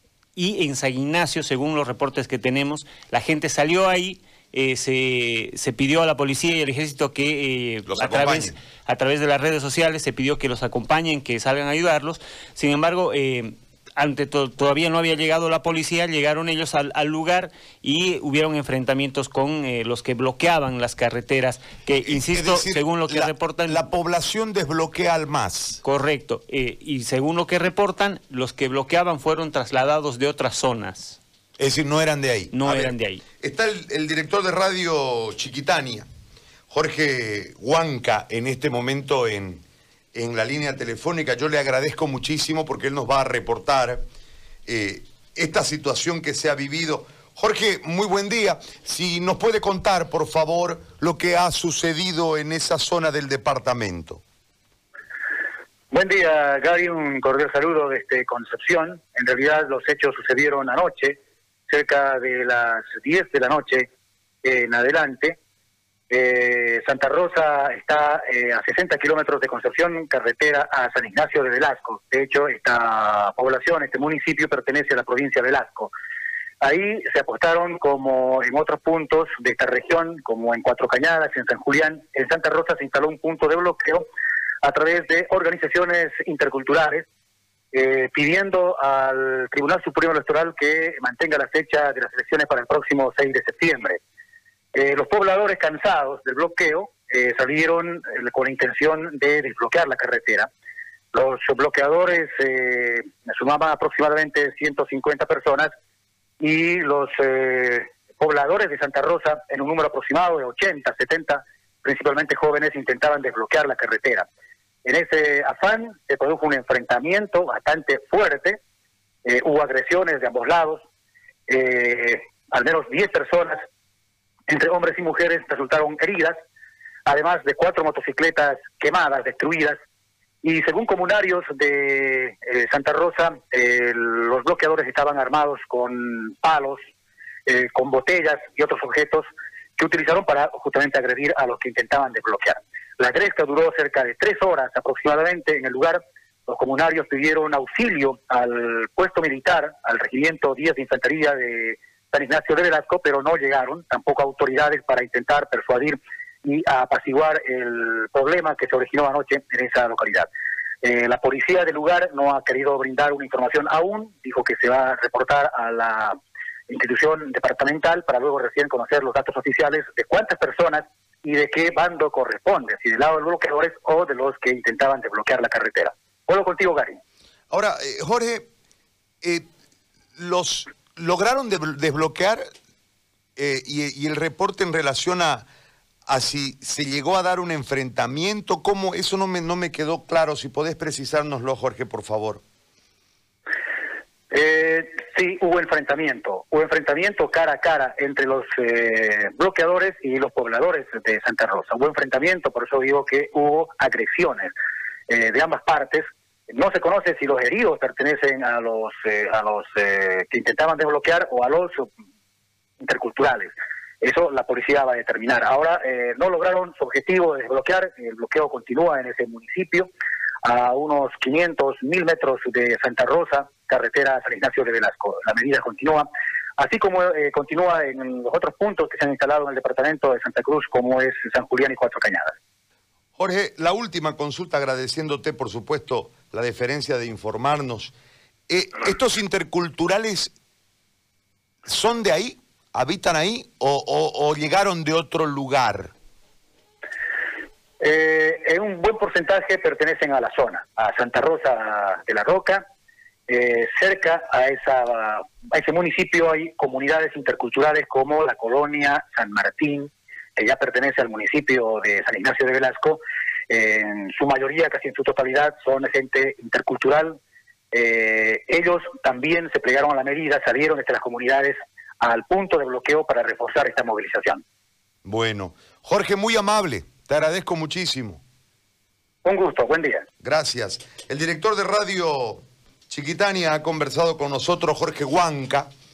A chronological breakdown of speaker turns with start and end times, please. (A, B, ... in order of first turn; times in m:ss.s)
0:00.4-0:23.9 A
0:07.9-0:08.6 B
0:22.0-0:25.8 B
0:25.8-0:31.2 A
0:31.6-0:36.1 B
0:32.5-0:33.2 A
0:36.7-0:39.6 B
0:40.1-0:44.0 B
0:44.7-0:54.2 B
0:55.9-1:03.9 C
1:04.4-1:05.4 C
1:06.1-1:15.9 C
1:16.6-1:24.1 C
1:24.6-1:27.1 C
1:27.7-1:34.0 C
1:34.7-1:40.5 C
1:41.1-1:45.7 C
1:46.4-1:54.3 C
1:54.8-1:58.6 C
1:59.2-2:00.8 C
2:01.5-2:03.7 C
2:04.5-2:06.4 C
2:07.1-2:09.8 C
2:10.4-2:16.8 C
2:17.5-2:40.3 C
2:40.8-2:46.2 C
2:46.7-2:57.0 C
2:57.5-2:58.5 B
3:00.2-3:02.5 B
3:03.4-3:05.5 B
3:06.1-3:12.4 B
3:14.3-3:24.5 C
3:25.1-3:31.9 C
3:32.8-3:33.5 C
3:34.0-3:39.9 C
3:40.4-3:46.1 C
3:46.6-3:52.4 C
3:53.2-3:57.9 B
3:58.5-4:00.3 B
4:01.6-4:05.9 B
4:07.8-4:12.6 C
4:13.3-4:27.2 C
4:27.7-4:34.4 C
4:35.0-4:38.2 B
4:39.2-4:40.1 C
4:40.2-4:45.7 B